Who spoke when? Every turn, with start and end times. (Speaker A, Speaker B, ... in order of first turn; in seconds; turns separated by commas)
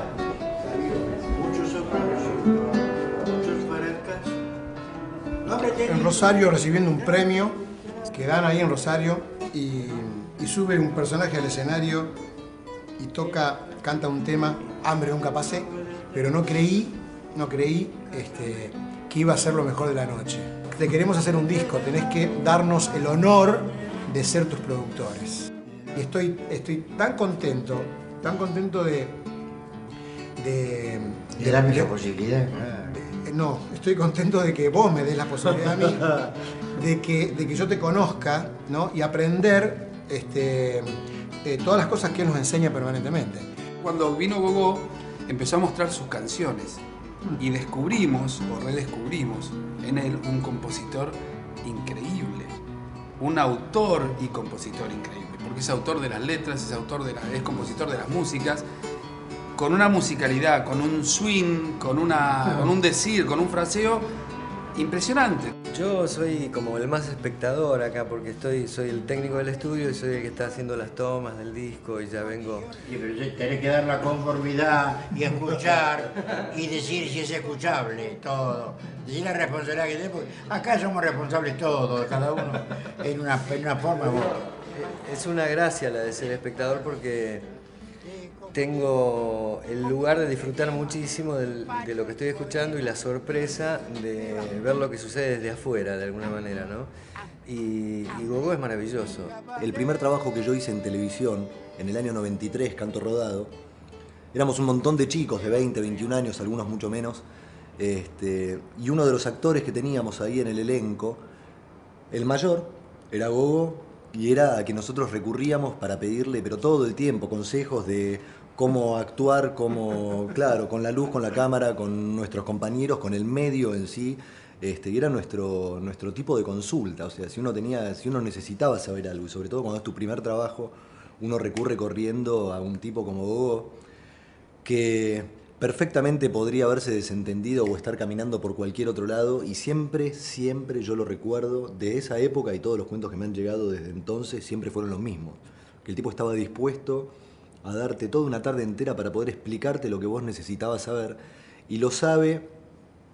Speaker A: 1.4-2.5, Speaker A: 3.4-4.3, Speaker A: 5.5-5.8, Speaker B: 5.8-12.2, Speaker B: 13.0-29.2, Speaker B: 30.4-32.1, Speaker A: 32.1-32.7, Speaker B: 32.7-40.9, Speaker B: 41.4-43.5, Speaker C: 43.8-46.8, Speaker C: 47.4-52.6, Speaker C: 53.2-58.7, Speaker C: 59.6-64.1, Speaker C: 64.8-65.5, Speaker D: 65.7-72.8, Speaker A: 72.8-84.4, Speaker D: 84.3-87.5, Speaker D: 88.5-96.9, Speaker D: 97.5-99.4, Speaker E: 99.5-103.5, Speaker E: 104.3-107.3, Speaker E: 107.8-111.2, Speaker E: 112.1-133.8, Speaker E: 134.7-147.1, Speaker E: 147.6-151.2, Speaker E: 151.7-152.5